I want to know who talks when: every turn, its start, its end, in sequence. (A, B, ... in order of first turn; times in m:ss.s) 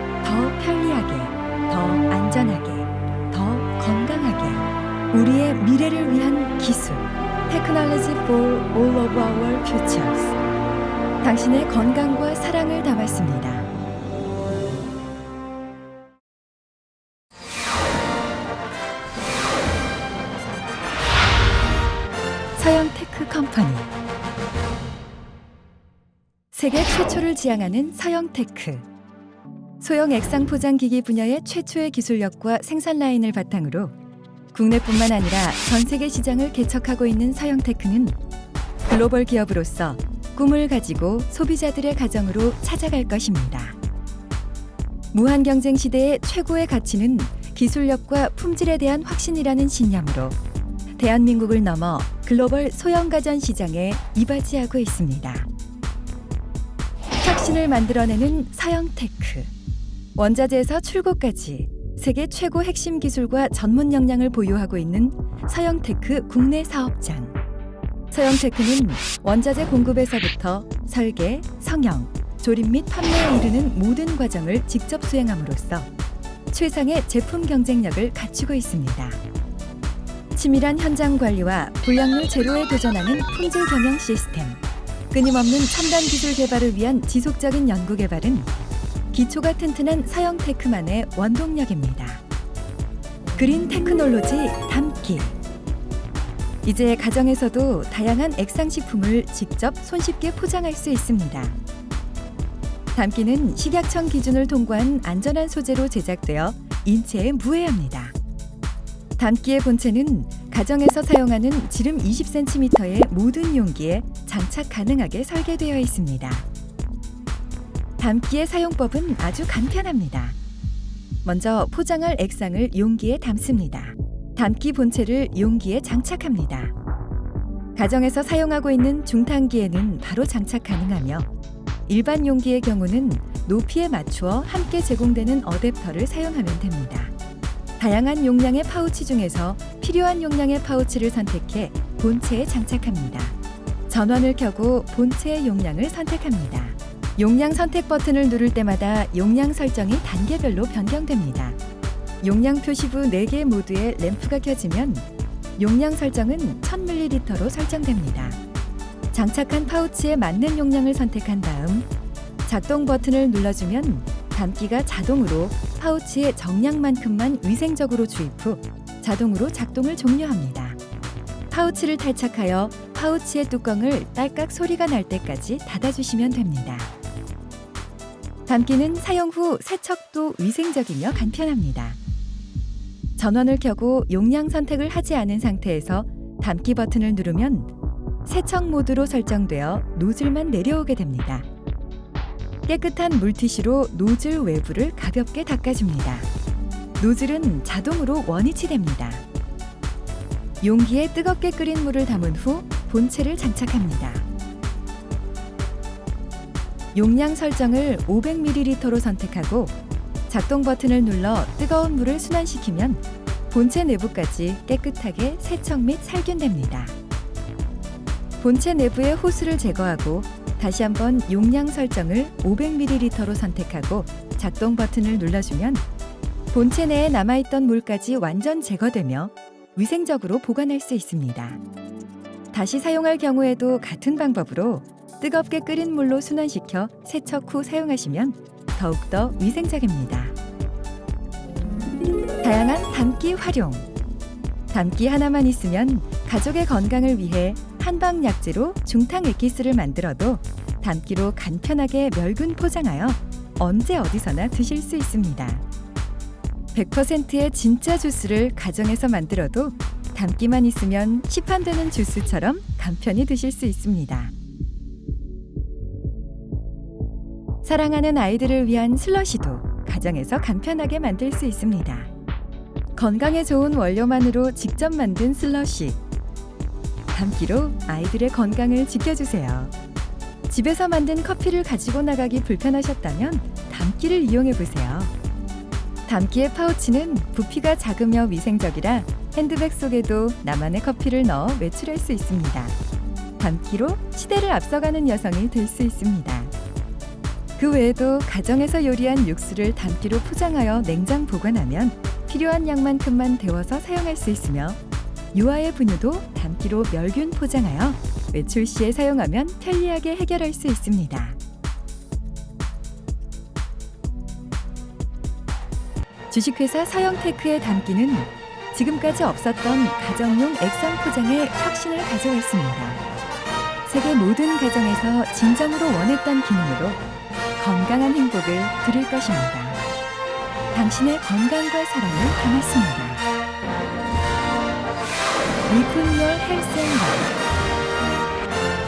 0:00.2-0:10.4 A
0:11.2-0:13.7 A
0:22.6-0:23.9 A
0:26.5-0:28.9 A
0:29.8-0:33.9 A
0:34.5-0:38.2 A
0:38.9-0:43.8 A
0:45.1-0:50.4 A
0:51.0-0:55.5 A
0:57.2-0:59.5 A
1:00.2-1:07.4 A
1:08.1-1:15.9 A
1:16.5-1:19.2 A
1:20.3-1:28.5 A
1:29.1-1:32.2 A
1:33.4-1:35.4 A
1:36.6-1:41.6 A
1:42.9-1:48.1 A
1:49.2-1:56.4 A
1:58.0-2:00.4 A
2:01.2-2:06.7 A
2:07.8-2:11.3 A
2:11.9-2:17.1 A
2:17.8-2:23.4 A
2:23.9-2:31.6 A
2:32.2-2:38.4 A
2:39.1-2:41.9 A
2:42.4-2:50.8 A
2:51.5-2:56.9 A
2:58.5-3:02.0 A
3:03.2-3:07.7 A
3:08.2-3:11.4 A
3:12.7-3:16.3 A
3:17.0-3:19.2 A
3:20.6-3:24.2 A
3:26.9-3:29.7 A
3:30.3-3:36.9 A
3:38.4-3:45.8 A
3:46.5-3:51.6 A
3:52.5-4:00.3 A
4:02.4-4:03.9 A
4:04.7-4:15.6 A
4:16.7-4:24.3 A
4:27.6-4:32.1 A
4:33.0-4:36.0 A
4:37.1-4:39.7 A
4:40.5-4:45.1 A
4:46.1-4:52.7 A
4:53.4-4:56.5 A
4:57.6-5:04.8 A
5:05.3-5:11.4 A
5:16.3-5:23.0 A
5:23.8-5:27.0 A
5:27.6-5:29.8 A
5:30.7-5:33.2 A
5:35.7-5:37.3 A